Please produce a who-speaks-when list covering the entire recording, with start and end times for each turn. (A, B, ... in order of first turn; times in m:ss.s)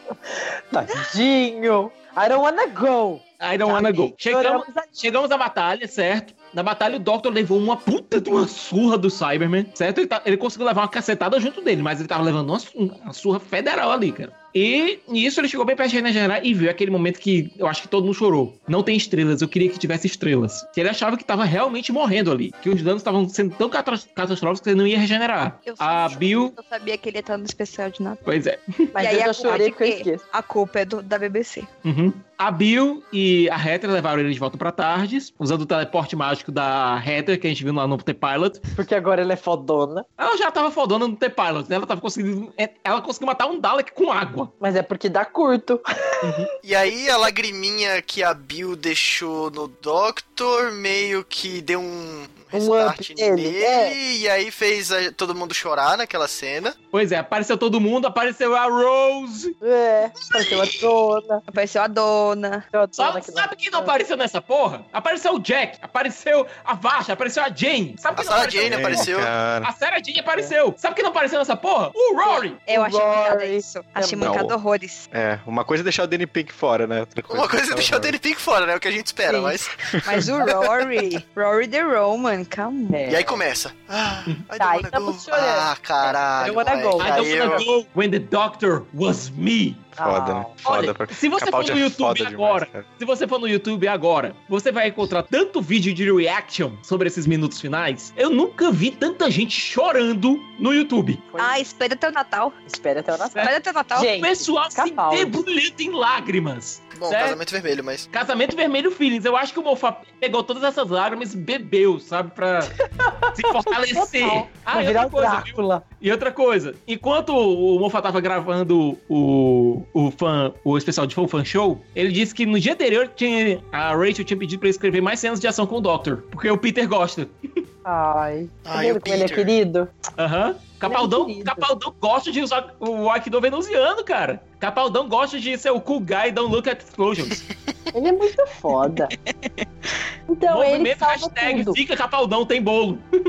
0:00.3-0:04.9 A
0:03.4-0:26.6 B
0:25.6-0:28.2 C
0:28.3-0:28.8 B
0:28.9-0:30.2 A
0:29.0-0:31.7 C
0:31.8-0:38.6 B
0:38.8-0:40.1 A
0:40.2-0:44.5 B
0:44.6-0:46.3 A
0:46.2-0:46.5 B
0:46.6-0:56.8 D
0:52.5-0:54.0 A
0:56.9-0:59.5 B
0:59.6-1:01.4 A
1:01.5-1:02.7 C
1:02.7-1:03.9 A
1:03.0-1:09.1 B
1:08.1-1:09.3 D
1:08.5-1:09.7 E
1:09.6-1:12.6 B
1:12.2-1:15.1 C
1:12.7-1:14.4 A
1:14.2-1:14.6 E
1:15.1-1:18.2 E
1:17.3-1:19.8 D
1:19.3-1:19.5 A
1:20.0-1:23.1 C
1:22.9-1:23.4 A
1:23.1-1:27.6 D
1:24.6-1:27.6 A
1:27.0-1:29.9 B
1:30.0-1:32.9 E
1:30.0-1:30.5 A
1:30.7-1:41.2 B
1:41.3-1:41.6 A
1:41.4-1:42.6 C
1:42.7-1:45.4 A
1:43.4-1:44.1 C
1:44.1-1:47.4 B
1:46.9-1:48.1 D
1:48.1-1:52.7 B
1:53.0-1:55.8 A
1:53.4-2:07.3 B
2:07.8-2:09.9 A
2:08.6-2:09.5 D
2:10.2-2:17.4 B
2:10.9-2:11.7 A
2:17.9-2:19.1 A
2:20.3-2:21.8 A
2:20.5-2:23.1 B